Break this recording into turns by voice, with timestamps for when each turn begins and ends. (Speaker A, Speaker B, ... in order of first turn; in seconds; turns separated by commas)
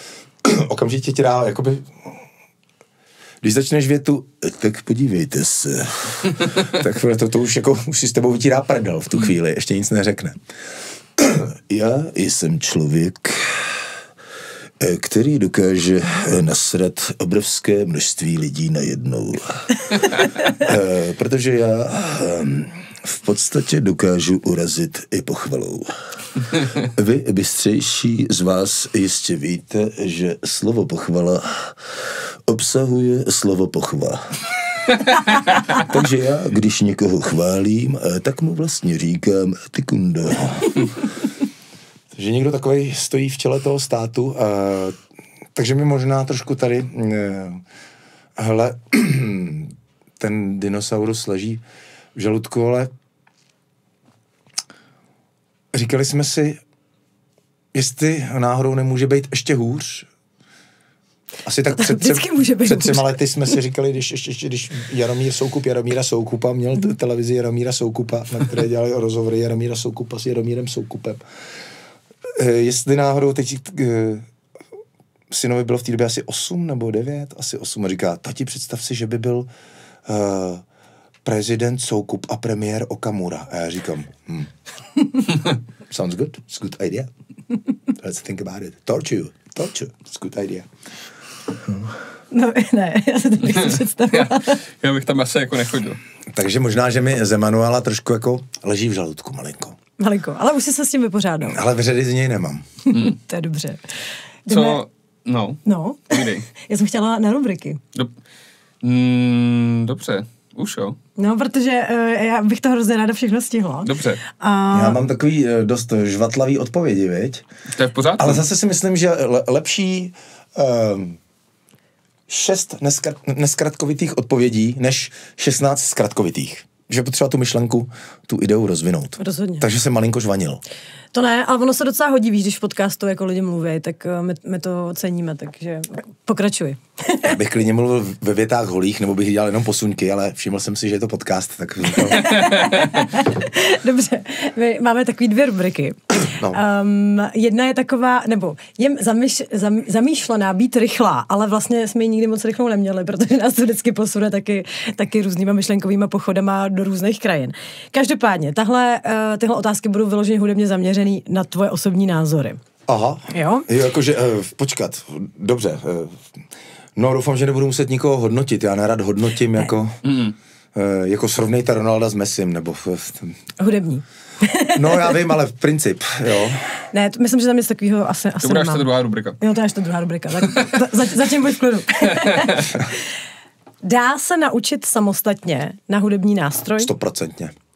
Speaker A: 0.4-2.2, Speaker A: 3.4-10.4, Speaker A: 11.2-13.7, Speaker A: 14.8-26.0, Speaker A: 26.6-34.9, Speaker A: 35.7-41.1, Speaker A: 42.1-45.0, Speaker A: 45.5-47.6, Speaker A: 48.4-51.6, Speaker A: 52.1-52.9, Speaker A: 55.7-56.6, Speaker A: 57.7-60.1, Speaker A: 61.4-71.2, Speaker B: 61.7-63.2, Speaker A: 72.4-74.3, Speaker A: 75.3-79.5, Speaker A: 80.1-80.6, Speaker A: 81.2-84.5, Speaker A: 85.9-87.1, Speaker A: 88.0-90.7, Speaker A: 91.7-91.9, Speaker B: 92.3-94.6, Speaker C: 93.6-96.0, Speaker A: 96.3-99.8, Speaker B: 100.0-101.6, Speaker A: 101.5-102.7, Speaker B: 102.9-103.9, Speaker B: 104.5-104.8, Speaker C: 104.5-106.5, Speaker B: 105.7-107.8, Speaker C: 108.8-111.0, Speaker B: 111.2-115.0, Speaker C: 113.8-114.2, Speaker A: 114.7-117.5, Speaker C: 117.8-118.5, Speaker A: 118.2-121.2, Speaker A: 122.3-130.6, Speaker B: 129.2-129.7, Speaker B: 131.1-137.4, Speaker A: 137.2-142.3, Speaker B: 142.0-162.6, Speaker A: 146.2-146.6, Speaker A: 162.9-166.2, Speaker B: 163.3-163.7, Speaker A: 167.0-170.0, Speaker C: 170.1-170.3, Speaker A: 170.7-173.4, Speaker B: 173.6-175.3, Speaker A: 174.7-176.8, Speaker B: 176.9-182.9, Speaker C: 178.4-179.4, Speaker C: 182.2-182.6, Speaker B: 183.8-186.9, Speaker A: 186.8-187.5